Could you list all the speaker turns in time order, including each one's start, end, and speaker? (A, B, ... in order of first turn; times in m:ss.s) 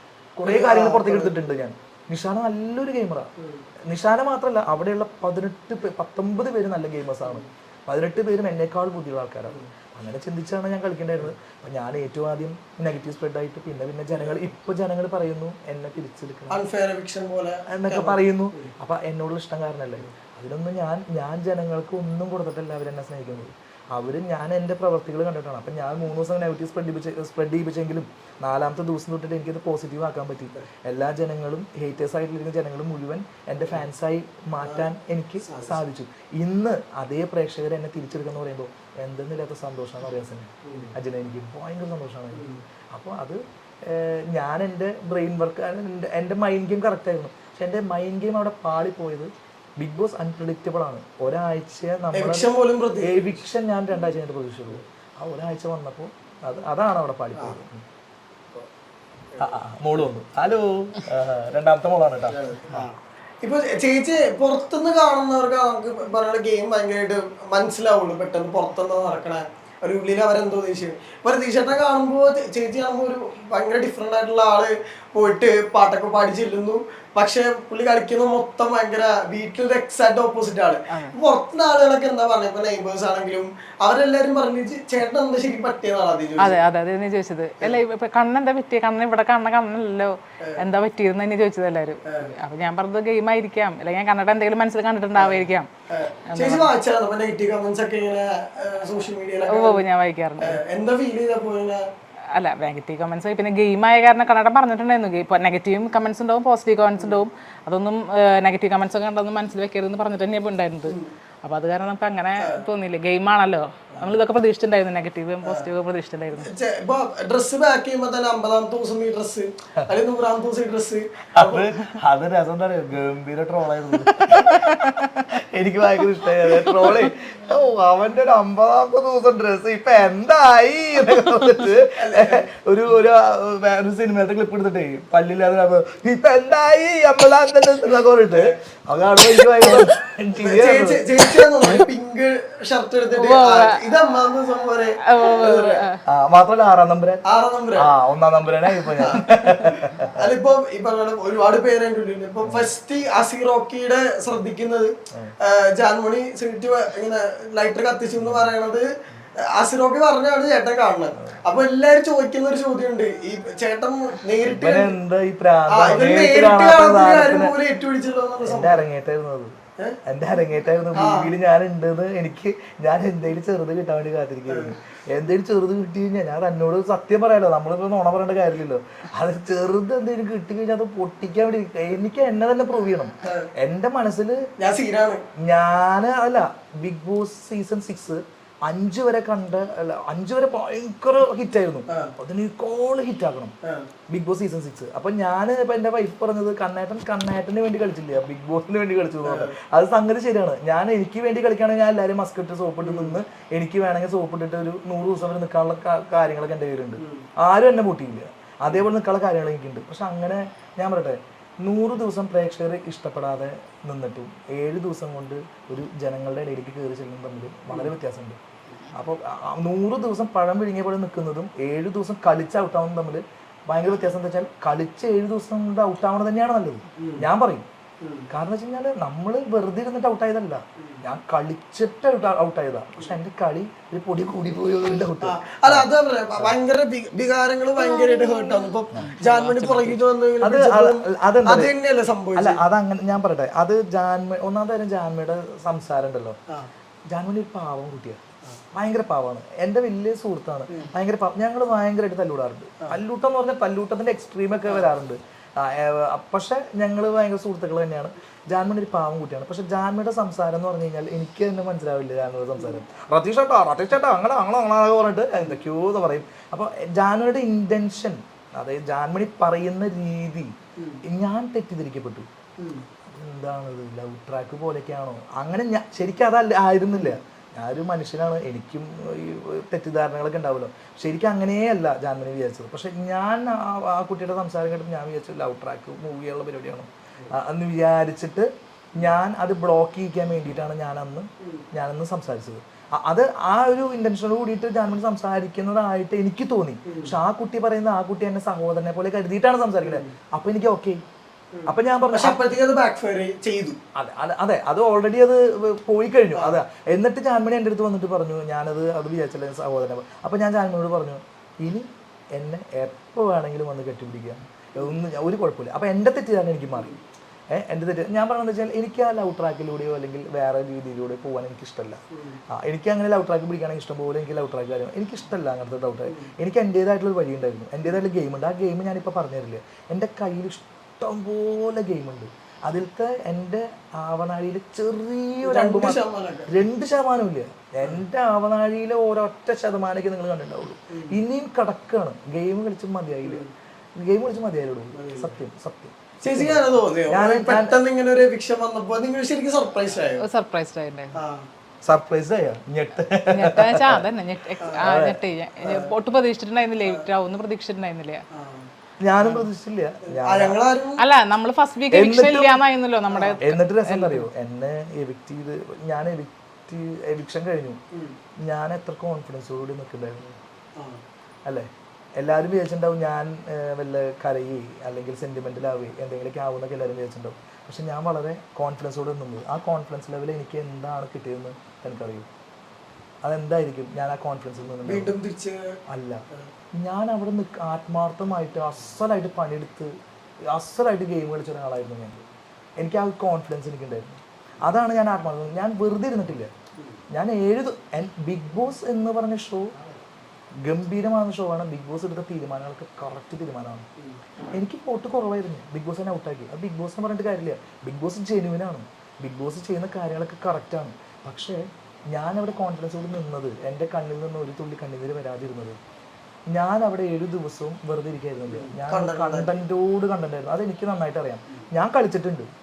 0:00.4-0:03.3 A
0:00.4-0:01.3 B
0:03.4-0:03.6 B
0:03.9-0:16.6 A
0:16.5-0:18.7 B
0:17.7-0:52.5 A
0:35.4-0:35.8 B
0:40.6-0:40.9 B
0:42.3-0:42.6 B
0:52.1-0:53.1 B
0:53.0-0:57.8 A
0:59.4-1:02.8 A
1:02.3-1:26.6 B
1:26.4-1:35.7 C
1:32.0-1:32.3 B
1:35.1-1:39.8 B
1:36.2-1:36.7 C
1:39.5-1:40.6 C
1:40.4-1:41.8 B
1:42.3-1:56.5 C
1:50.8-1:51.1 B
1:52.4-1:52.6 B
1:55.4-1:55.7 B
1:56.4-2:01.7 B
2:01.3-2:21.7 A
2:04.1-2:05.2 C
2:12.0-2:12.4 B
2:19.6-2:19.9 B
2:20.4-2:25.9 B
2:23.2-2:23.9 C
2:25.0-2:26.0 C
2:26.0-2:27.2 A
2:27.2-2:27.9 B
2:27.8-2:30.3 A
2:29.0-2:45.0 B
2:32.4-2:32.7 A
2:38.2-2:38.5 A
2:44.4-2:47.5 A
2:45.7-2:48.8 B
2:48.4-3:04.5 A
2:50.9-2:51.3 B
2:54.5-2:54.8 B
3:04.6-3:05.2 B
3:05.4-3:13.5 A
3:11.9-3:12.1 B
3:13.6-3:13.9 B
3:14.1-3:38.4 A
3:19.2-3:19.6 B
3:22.8-3:23.2 B
3:27.0-3:27.2 B
3:38.9-3:47.6 A
3:47.0-3:47.2 B
3:48.0-3:48.3 B
3:48.3-3:55.9 A
3:55.2-4:02.6 B
3:58.9-3:59.4 A
3:59.0-3:59.9 C
4:00.4-4:01.7 A
4:02.4-4:06.4 A
4:07.1-4:08.2 A
4:08.7-4:32.3 A
4:32.6-4:32.8 B
4:33.0-5:01.0 A
4:36.9-4:37.2 B
4:56.8-4:57.1 B
4:59.8-5:00.1 B
5:01.5-5:03.8 B
5:01.7-5:02.4 A
5:03.9-5:17.0 A
5:06.3-5:06.6 B
5:17.5-5:43.4 A
5:22.1-5:22.4 B
5:35.4-5:36.5 B
5:40.9-5:41.1 B
5:44.0-5:47.8 A
5:44.9-5:45.3 B
5:46.2-5:50.2 B
5:50.2-5:51.2 C
5:51.1-5:51.5 B
5:51.8-5:54.0 A
5:53.3-5:58.2 C
5:54.6-5:54.8 B
5:54.8-5:55.2 A
5:55.6-5:55.9 B
5:58.3-5:58.7 B
5:59.0-6:00.6 A
6:00.0-6:01.0 B
6:01.0-6:04.3 C
6:01.9-6:02.6 A
6:03.1-6:03.4 B
6:03.4-6:07.8 A
6:08.4-6:10.4 A
6:10.8-6:11.0 B
6:11.4-6:22.3 A
6:23.2-6:25.1 A
6:24.8-6:25.8 B
6:25.9-6:29.9 A
6:30.4-6:32.2 A
6:32.8-6:36.5 A
6:37.1-6:39.7 A
6:40.6-6:43.8 A
6:44.5-6:55.8 A
6:56.5-7:02.5 A
6:58.5-6:59.6 B